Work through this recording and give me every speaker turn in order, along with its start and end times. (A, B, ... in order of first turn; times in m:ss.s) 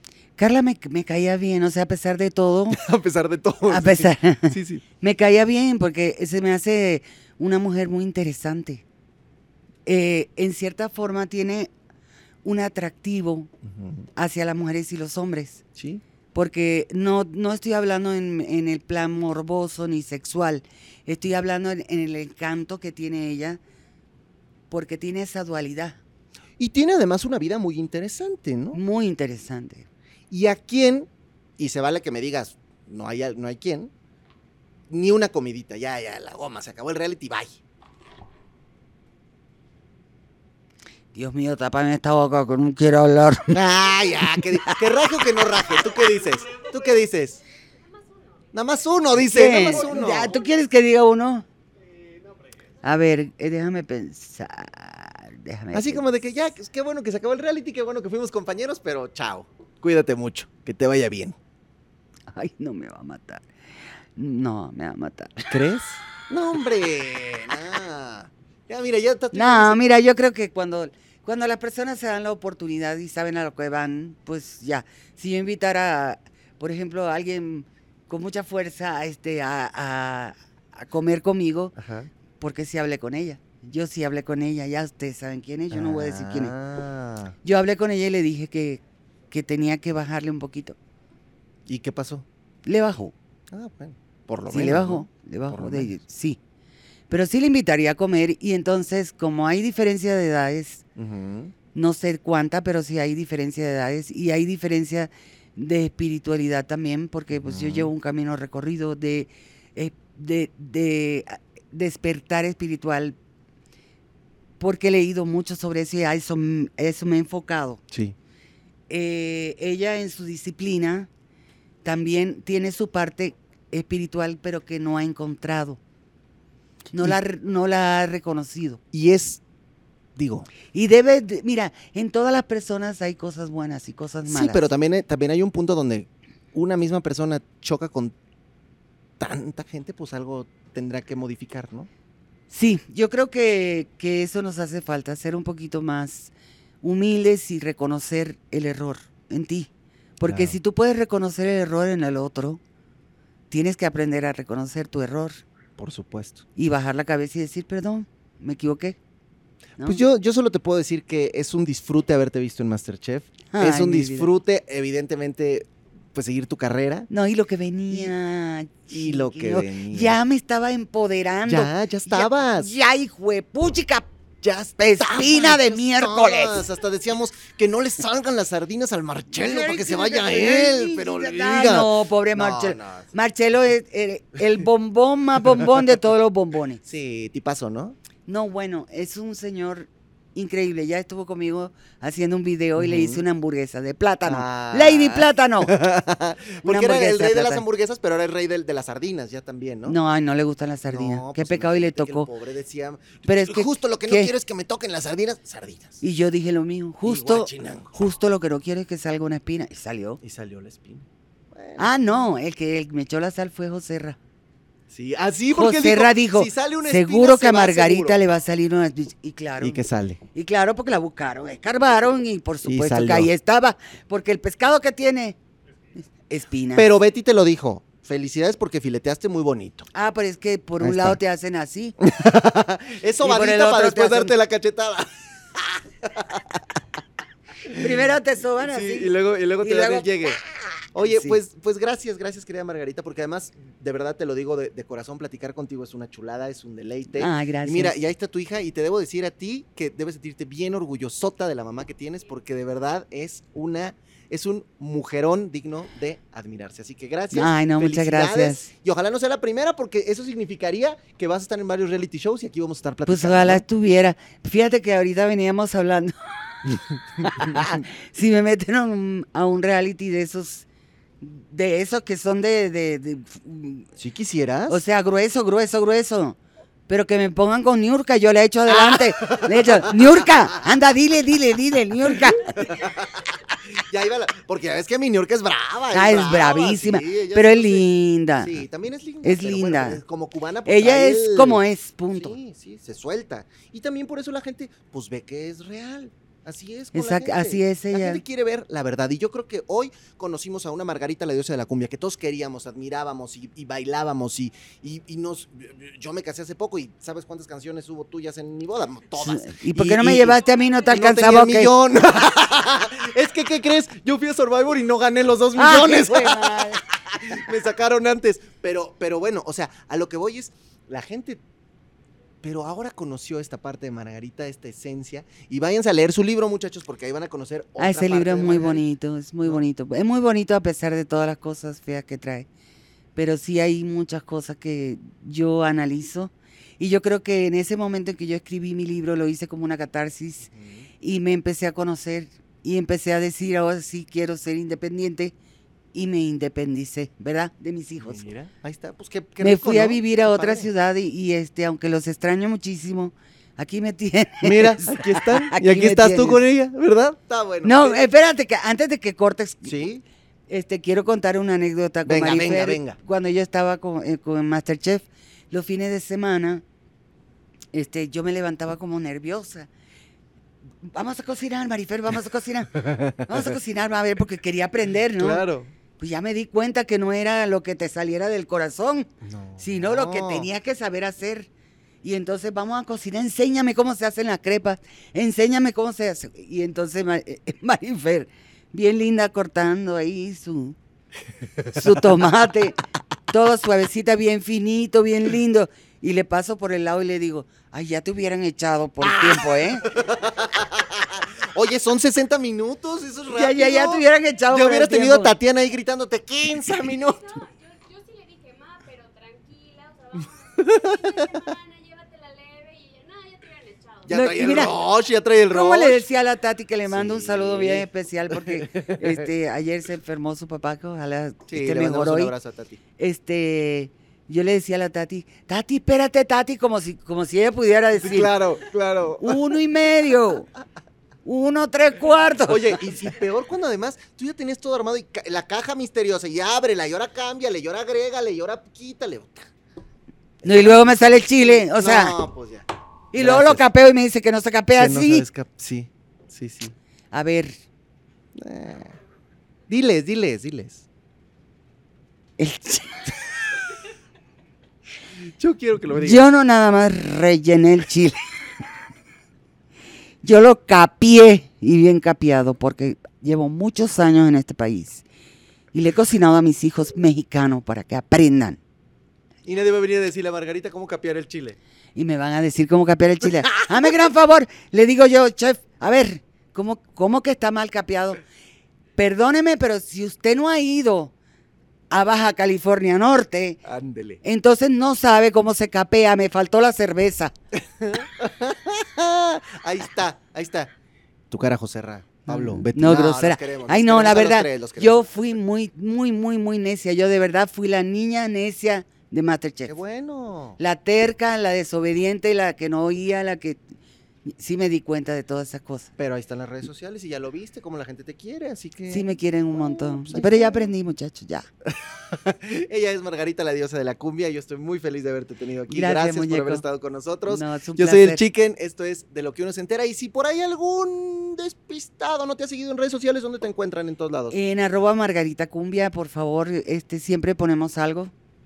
0:00.4-0:02.8 A
0:02.7-0:04.8 B
0:03.7-0:08.8 A
0:09.9-0:11.7 A
0:12.4-0:13.5 A
0:13.6-0:14.1 B
0:14.2-0:15.6 A
0:15.8-0:16.0 B
0:16.3-0:23.6 A
0:24.7-0:26.0 A
0:26.6-0:28.8 B
0:28.7-0:29.9 A
0:30.3-0:33.9 B
0:34.9-0:37.6 B
0:41.1-0:43.6 A
0:43.5-0:47.4 B
0:48.5-0:50.4 B
0:49.2-0:51.5 A
0:52.8-0:56.0 A
0:55.7-1:01.4 B
1:02.3-1:03.5 A
1:04.2-1:05.6 A
1:05.5-1:09.8 B
1:09.3-1:21.8 A
1:21.8-1:22.1 B
1:22.4-1:26.5 A
1:25.7-1:27.4 B
1:27.4-1:30.8 A
1:31.7-1:32.2 B
1:32.7-1:33.1 A
1:33.5-1:35.9 B
1:34.5-1:36.4 A
1:37.1-1:40.8 A
1:41.0-1:41.5 B
1:41.7-1:53.2 A
1:47.3-1:47.9 B
1:54.6-1:57.8 A
1:58.9-2:01.1 A
2:01.8-2:05.8 A
2:06.9-2:08.8 A
2:08.9-2:09.4 B
2:10.2-2:10.5 B
2:10.7-2:14.7 A
2:14.3-2:18.1 B
2:19.2-2:21.9 B
2:22.5-2:29.7 A
2:30.2-2:32.6 A
2:30.2-2:30.6 B
2:33.5-2:35.4 A
2:35.8-2:36.4 B
2:36.6-2:39.0 A
2:39.8-2:40.0 A
2:39.8-2:47.1 B
2:43.5-2:44.3 A
2:47.1-2:54.1 A
2:48.9-2:50.2 B
2:51.5-2:52.7 B
2:54.4-3:03.1 B
2:54.8-2:56.7 A
2:59.4-3:06.8 A
3:06.8-3:08.0 B
3:08.3-3:15.8 A
3:12.8-3:13.2 B
3:14.3-3:20.0 B
3:16.6-3:17.6 A
3:19.9-3:22.3 A
3:20.9-3:26.0 B
3:23.3-3:24.3 A
3:26.0-3:30.2 A
3:27.0-3:27.9 B
3:30.2-3:31.9 B
3:31.8-3:34.2 A
3:34.9-3:38.2 B
3:35.5-3:39.8 A
3:39.6-3:40.2 B
3:40.3-3:45.4 A
3:42.6-3:43.3 B
3:46.3-3:46.9 A
3:46.8-3:49.8 B
3:49.9-3:52.0 A
3:50.8-3:51.2 B
3:52.0-3:56.6 B
3:53.2-3:54.3 A
3:57.7-3:58.1 B
3:57.7-4:00.4 A
3:58.7-4:00.4 B
4:00.9-4:23.6 B
4:01.0-4:01.4 A
4:07.2-4:07.9 A
4:17.3-4:18.7 A
4:23.1-4:30.6 A
4:31.2-4:33.9 A
4:34.0-4:34.8 B
4:34.7-4:36.4 A
4:36.9-4:42.7 A
4:38.7-4:40.6 B
4:42.6-4:47.9 B
4:45.9-4:48.6 A
4:48.4-4:51.6 B
4:49.2-4:50.0 A
4:50.7-4:52.4 A
4:52.1-5:10.4 B
4:57.0-4:58.2 A
5:09.2-5:11.7 A
5:10.9-5:21.4 B
5:15.6-5:16.8 A
5:22.4-5:28.8 B
5:27.8-5:32.5 A
5:33.2-5:40.5 A
5:40.5-5:40.9 B
5:41.0-5:45.3 A
5:45.9-5:48.2 A
5:48.0-5:50.7 B
5:49.4-5:56.4 A
5:54.4-5:58.0 B
5:57.6-5:59.8 A
5:59.6-6:00.0 B
6:00.5-6:06.6 A
6:02.0-6:03.0 B
6:07.7-6:09.7 A
6:10.8-6:15.4 A
6:15.2-6:15.7 B
6:16.0-6:19.1 A
6:19.2-6:20.5 B
6:19.6-6:21.5 A
6:22.0-6:30.8 A
6:31.7-6:39.9 A
6:39.0-6:47.4 B
6:43.3-6:45.3 A
6:47.1-6:54.1 C
6:50.6-6:51.4 B
6:54.1-6:56.0 B
6:54.1-6:54.8 A
6:55.5-7:02.3 A
6:56.9-6:59.3 B
7:01.5-7:02.8 B
7:03.0-7:08.3 A
7:08.0-7:09.4 B
7:09.2-7:10.5 A
7:11.2-7:12.9 A
7:12.5-7:19.5 B
7:20.4-7:23.6 B
7:20.4-7:22.2 A
7:23.1-7:25.2 A
7:24.8-7:26.8 B
7:27.1-7:27.6 A
7:28.4-7:28.9 B
7:29.7-7:30.8 B
7:32.4-7:33.2 A
7:35.4-7:36.3 B
7:36.0-7:38.2 A
7:40.2-7:45.0 A
7:45.7-7:48.6 A
7:49.4-7:51.6 B
7:52.0-7:58.2 A
7:59.0-8:01.1 A
8:01.9-8:03.6 A
8:03.6-8:04.2 B
8:04.2-8:07.3 A
8:07.5-8:10.7 B
8:11.3-8:15.0 B
8:12.3-8:19.7 A
8:19.7-8:20.6 B
8:20.6-8:23.6 A
8:24.3-8:25.9 A
8:26.0-8:30.7 B
8:28.9-8:31.5 A
8:31.7-8:44.4 B
8:35.7-8:36.6 A
8:37.3-8:38.2 A
8:44.3-8:48.1 A